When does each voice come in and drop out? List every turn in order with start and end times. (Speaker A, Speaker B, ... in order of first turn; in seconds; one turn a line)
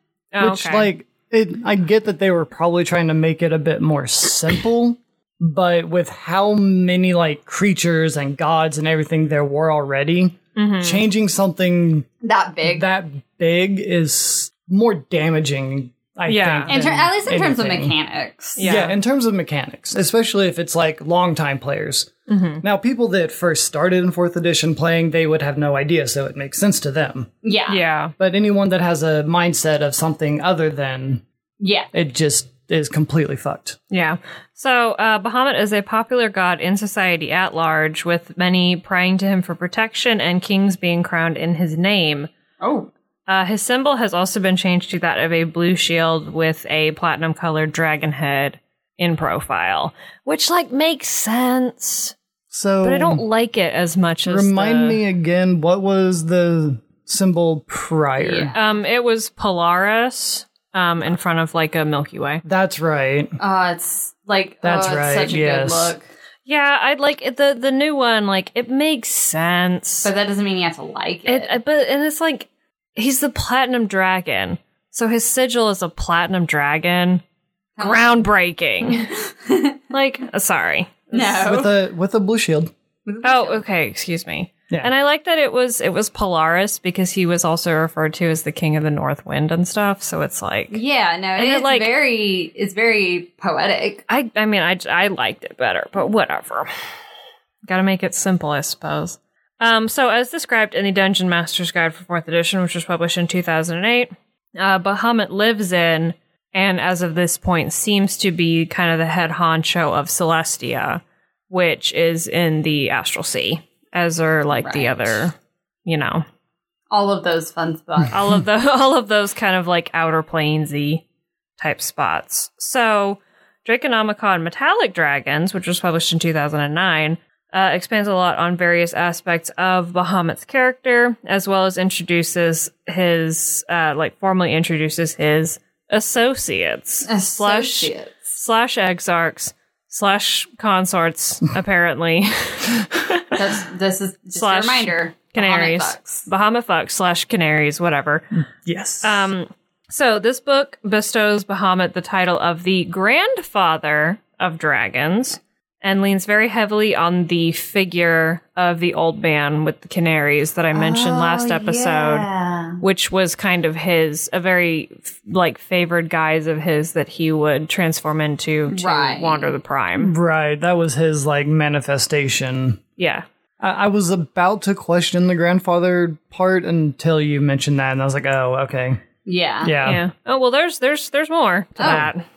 Speaker A: 0.3-0.9
Speaker B: 0.4-12.1
Speaker A: 10.6-11.0
Speaker C: 12.2-12.9
Speaker B: 12.7-17.9
Speaker A: 16.3-16.7
Speaker C: 16.7-18.8
Speaker A: 18.6-18.9
Speaker B: 18.6-22.1
Speaker A: 22.3-22.6
Speaker B: 22.6-27.3
Speaker C: 27.4-27.8
Speaker A: 27.7-28.1
Speaker B: 28.2-31.2
Speaker C: 31.6-31.9
Speaker B: 31.9-33.8
Speaker A: 33.9-42.3
Speaker C: 42.6-42.9
Speaker A: 43.3-52.1
Speaker B: 52.5-53.2
Speaker A: 52.8-55.0
Speaker B: 54.2-58.5
Speaker C: 58.2-58.7
Speaker A: 58.5-62.4
Speaker B: 62.5-63.4
Speaker C: 63.4-66.1
Speaker B: 64.6-66.0
Speaker A: 66.5-70.1
Speaker C: 70.0-71.5
Speaker A: 71.3-77.2
Speaker C: 77.8-78.2
Speaker A: 77.8-79.1
Speaker C: 79.1-79.8
Speaker A: 79.9-81.5
Speaker C: 81.1-81.7
Speaker B: 81.5-82.7
Speaker C: 83.1-83.6
Speaker A: 83.2-90.8
Speaker C: 90.7-94.0
Speaker A: 91.4-91.9
Speaker A: 94.1-96.7
Speaker A: 97.7-115.3
Speaker C: 114.6-115.2
Speaker A: 115.9-116.2
Speaker C: 116.9-118.2
Speaker A: 118.1-121.0
Speaker A: 121.6-143.4
Speaker C: 137.1-138.3
Speaker C: 143.3-146.3
Speaker A: 144.4-148.3
Speaker B: 148.6-149.3
Speaker A: 149.0-162.3
Speaker C: 160.7-162.8
Speaker A: 162.8-170.1
Speaker C: 168.7-169.5
Speaker B: 170.0-172.8
Speaker A: 173.0-173.2
Speaker B: 173.6-179.0
Speaker C: 179.2-179.7
Speaker B: 179.6-180.0
Speaker A: 179.8-182.2
Speaker C: 181.8-182.1